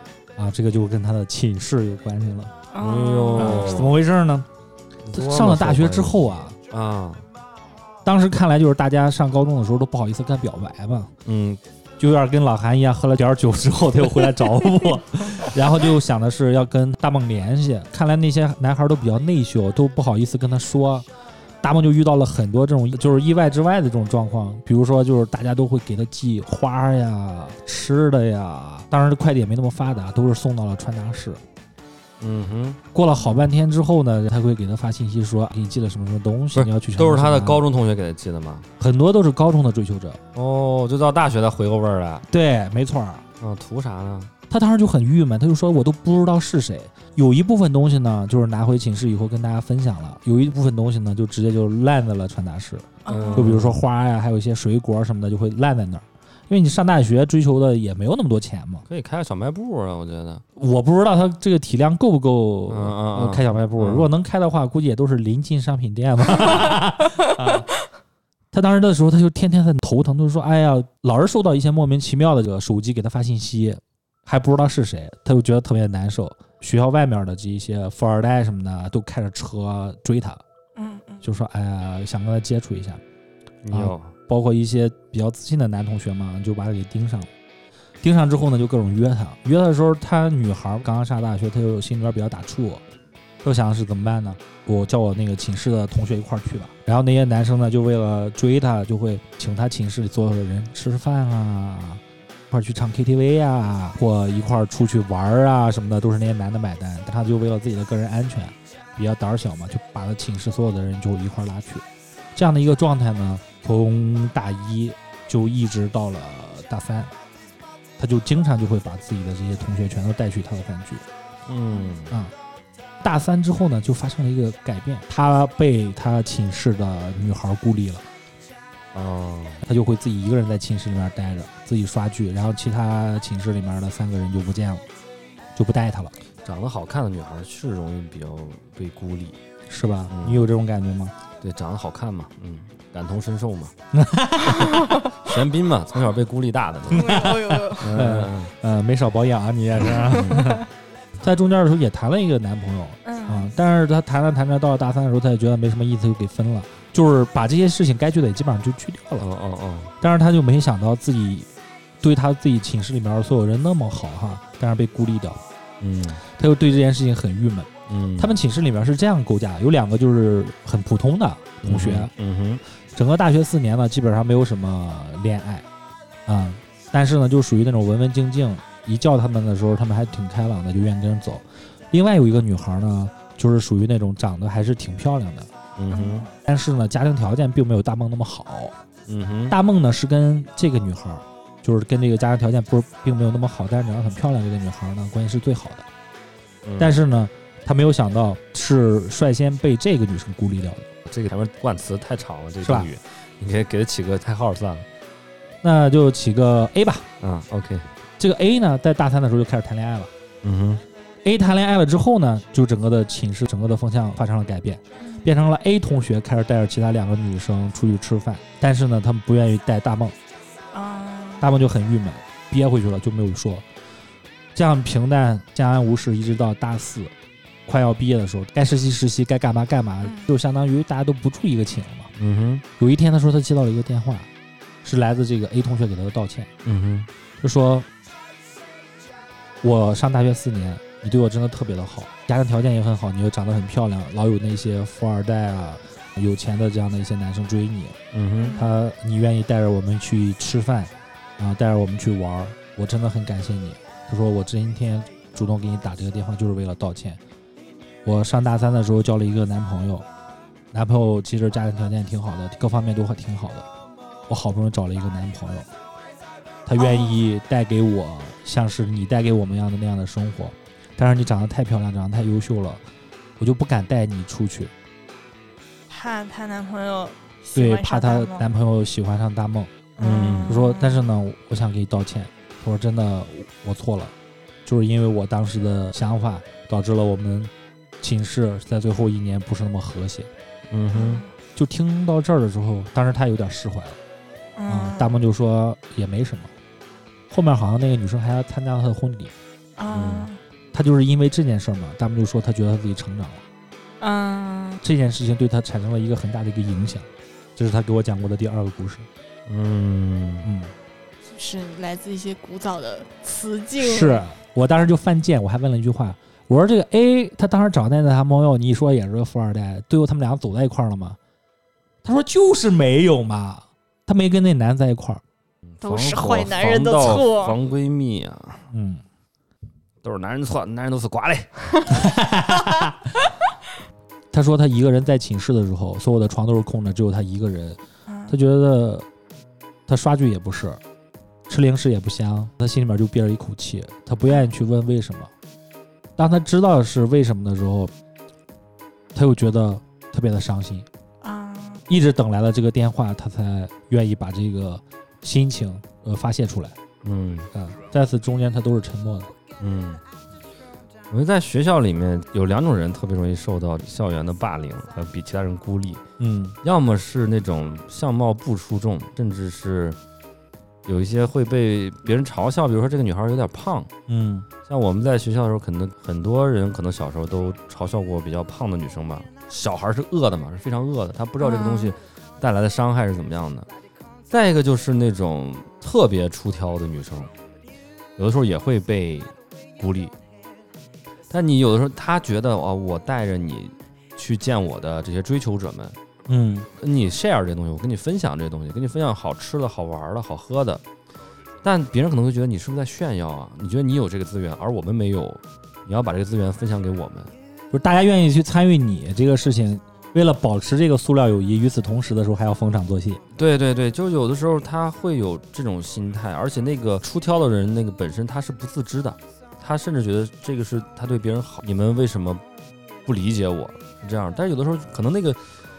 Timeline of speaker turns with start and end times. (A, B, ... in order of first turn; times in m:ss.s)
0:00.4-0:02.5 A
0:02.7-0:04.0 B
0:02.8-0:04.0 C
0:03.4-0:04.5 A
0:05.1-0:06.2 C
0:05.1-0:06.6 A
0:06.7-0:07.2 C
0:08.0-0:11.1 A
0:11.2-0:11.6 C
0:12.0-0:21.1 A
0:21.6-0:31.4 A
0:32.2-0:32.8 C
0:32.9-0:37.6 A
0:36.5-0:38.7 C
0:38.8-0:40.2 A
0:40.4-0:42.3 C
0:42.3-0:43.2 A
0:43.4-0:44.3 C
0:44.5-0:58.8 A
0:53.0-0:53.6 B
0:53.1-0:53.8 C
0:58.9-1:00.4 C
1:00.6-1:07.7 A
1:02.7-1:04.1 C
1:08.5-1:20.4 A
1:20.8-1:21.2 B
1:21.2-1:23.0 A
1:23.6-1:24.1 C
1:23.7-1:27.3 A
1:28.0-1:32.8 A
1:33.4-1:57.1 A
1:58.0-2:01.0 A
2:01.5-2:02.2 C
2:03.0-2:08.0 A
2:08.9-2:09.6 C
2:09.6-2:14.8 A
2:15.6-2:16.1 A
2:16.4-2:19.4 C
2:19.7-2:21.1 A
2:20.1-2:20.5 C
2:21.4-2:23.7 C
2:23.9-2:24.9 A
2:24.4-2:28.5 C
2:24.6-2:25.0 B
2:26.9-2:28.0 B
2:26.9-2:30.6 A
2:29.8-2:30.5 C
2:29.9-2:30.6 B
2:31.2-2:39.3 A
2:33.0-2:33.5 B
2:39.2-2:39.9 C
2:40.0-2:41.5 A
2:42.0-2:45.4 A
2:45.8-2:46.2 C
2:46.2-2:52.1 A
2:47.9-2:48.4 C
2:51.6-2:52.6 C
2:53.0-2:55.7 A
2:56.3-3:05.5 A
3:05.8-3:06.3 C
3:05.9-3:06.3 B
3:06.4-3:08.8 A
3:09.1-3:09.6 C
3:09.5-3:15.9 A
3:16.6-3:17.0 C
3:16.8-3:20.9 A
3:21.1-3:24.9 C
3:22.6-3:22.9 A
3:25.6-3:27.1 A
3:27.2-3:27.9 C
3:28.2-3:30.1 A
3:30.4-3:30.8 C
3:31.2-3:40.2 A
3:35.0-3:35.3 B
3:40.7-3:41.5 B
3:41.4-3:43.6 A
3:44.6-3:47.1 A
3:47.7-3:52.1 A
3:50.0-3:50.3 B
3:52.2-3:52.6 C
3:52.8-3:54.3 A
3:54.8-3:56.5 A
3:56.6-3:57.1 C
3:57.4-3:57.9 A
3:59.6-4:08.0 A
4:08.1-4:08.6 C
4:08.4-4:08.7 B
4:08.5-4:17.2 A
4:18.0-4:20.1 A
4:20.7-4:23.7 A
4:24.3-4:25.7 A
4:26.7-4:32.8 A
4:26.8-4:27.3 B
4:33.4-4:34.7 A
4:35.9-4:38.5 B
4:37.6-4:44.1 A
4:40.0-4:41.1 B
4:40.0-4:40.6 C
4:44.6-4:50.3 A
4:50.7-4:51.2 C
4:50.9-4:51.3 B
4:51.6-4:54.0 A
4:54.6-4:55.1 B
4:54.7-4:56.5 A
4:57.3-4:59.3 A
4:59.8-5:00.4 B
4:59.9-5:00.3 C
5:00.7-5:03.4 A
5:04.0-5:04.8 B
5:04.8-5:09.1 A
5:09.5-5:10.5 C
5:10.4-5:10.7 A
5:11.3-5:14.3 B
5:13.8-5:21.2 A
5:22.0-5:25.2 A
5:25.7-5:28.6 C
5:25.8-5:27.6 B
5:28.7-5:29.0 A
5:30.0-5:31.5 C
5:31.9-5:33.1 A
5:34.3-5:39.1 A
5:38.1-5:38.4 B
5:39.9-5:40.8 A
5:41.5-5:45.3 A
5:46.2-5:47.9 A
5:49.1-5:50.9 A
5:51.2-5:51.8 B
5:51.9-5:56.8 A
5:57.0-5:57.5 C
5:57.5-5:59.3 A
5:59.6-6:00.0 C
6:01.1-6:06.0 C
6:06.2-6:06.6 A
6:06.6-6:10.0 C
6:10.9-6:13.9 C
6:14.1-6:14.5 A
6:14.7-6:23.7 C
6:21.4-6:21.9 B
6:24.3-6:27.3 C
6:28.2-6:30.2 C
6:31.3-6:36.0 C
6:36.3-6:36.7 A
6:36.8-6:40.8 C
6:41.6-6:47.3 C
6:47.7-6:53.2 A
6:53.4-7:02.4 C
7:03.1-7:05.4 C